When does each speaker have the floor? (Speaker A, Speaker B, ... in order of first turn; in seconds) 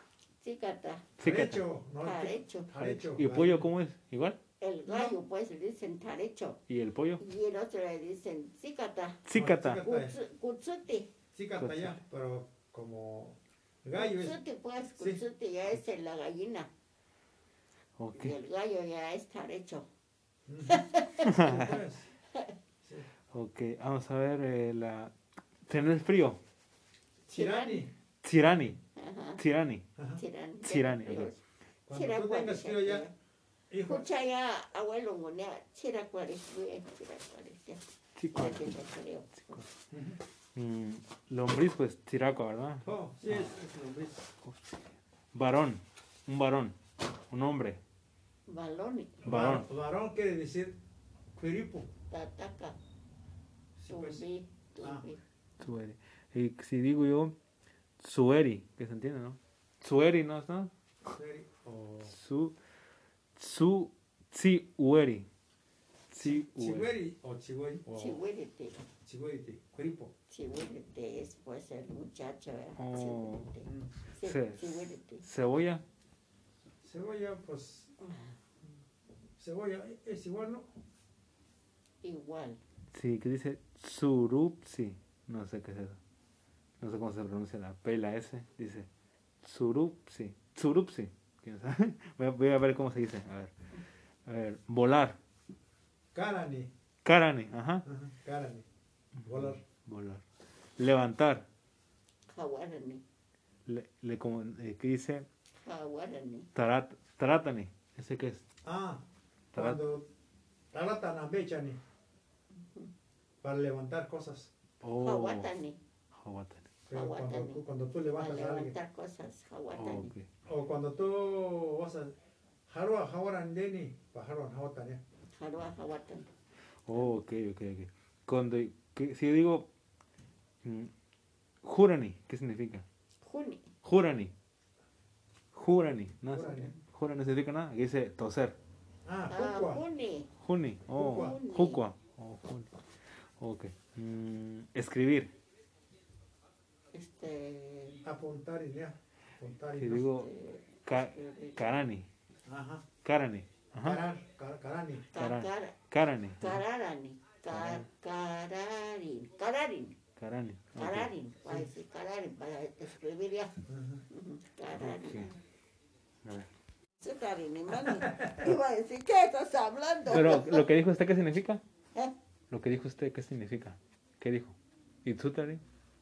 Speaker A: 0.4-1.2, 2.0-2.8, 4.6-6.6, 7.2-11.1, 13.9-16.7, 18.1-19.9, 20.6-21.3, 27.3-27.8, 28.9-29.4, 30.2-33.1, 33.8-39.6, 48.5-49.2, 52.1-52.8, 53.9-55.2, 68.0-68.8, 70.3-75.2, 78.0-78.3, 82.0-82.6, 102.3-103.0, 105.6-106.5, 112.5-112.9, 115.0-115.8, 116.9-117.6, 118.2-120.1, 125.3-126.3, 133.2-133.7, 139.3-140.3, 140.9-141.8, 146.9-148.0, 150.0-151.7, 155.1-155.8, 156.4-160.0, 160.7-163.6, 164.1-165.4, 167.0-170.7
Speaker B: 1.2-1.6, 2.8-4.4, 6.7-7.2, 9.2-9.8, 11.6-12.0, 18.0-18.4, 21.2-21.8, 23.3-26.4, 28.2-28.8, 29.4-29.9, 30.6-31.3, 38.1-38.7, 40.5-43.5, 44.4-44.8, 45.3-46.8, 47.3-47.8, 49.2-49.7, 55.6-57.4, 58.0-60.7, 62.1-62.5, 63.4-65.3, 66.1-66.9, 72.8-73.5, 74.2-75.8, 82.9-86.0, 86.8-88.9, 89.4-93.5, 94.2-95.2, 97.0-97.8, 99.2-100.2, 100.8-101.5, 103.7-105.3, 106.5-108.4, 109.5-109.8, 114.8-115.5, 116.1-116.7, 119.7-120.3, 126.8-129.7, 130.6-130.9, 131.6-132.8, 133.8-134.3, 135.5-138.6, 140.4-145.3, 149.8-150.3, 150.8-152.1, 153.0-154.0, 155.1-156.6, 157.5-157.9, 160.2-161.1, 164.7-165.3, 166.2-166.5, 170.1-171.6, 172.5-175.6
Speaker C: 1.2-3.7, 4.9-5.2, 9.3-10.2, 11.3-14.4, 20.5-22.1, 22.8-23.1, 27.3-27.9, 31.9-33.0, 33.7-34.1, 39.9-40.2, 42.8-44.3, 49.2-50.8, 51.3-51.9, 53.8-54.2, 54.8-55.1, 61.0-62.1, 66.2-68.2, 69.0-70.1, 76.8-77.9, 79.4-80.7, 96.1-96.7, 97.8-98.7, 99.2-99.6, 108.6-109.0, 109.5-110.1, 110.7-111.8, 113.4-114.5, 116.9-118.8, 120.5-122.1, 122.7-125.0, 136.3-136.7, 139.0-139.8, 140.9-141.4, 148.0-150.1, 152.4-152.8, 153.8-155.1, 163.7-164.0, 167.8-168.5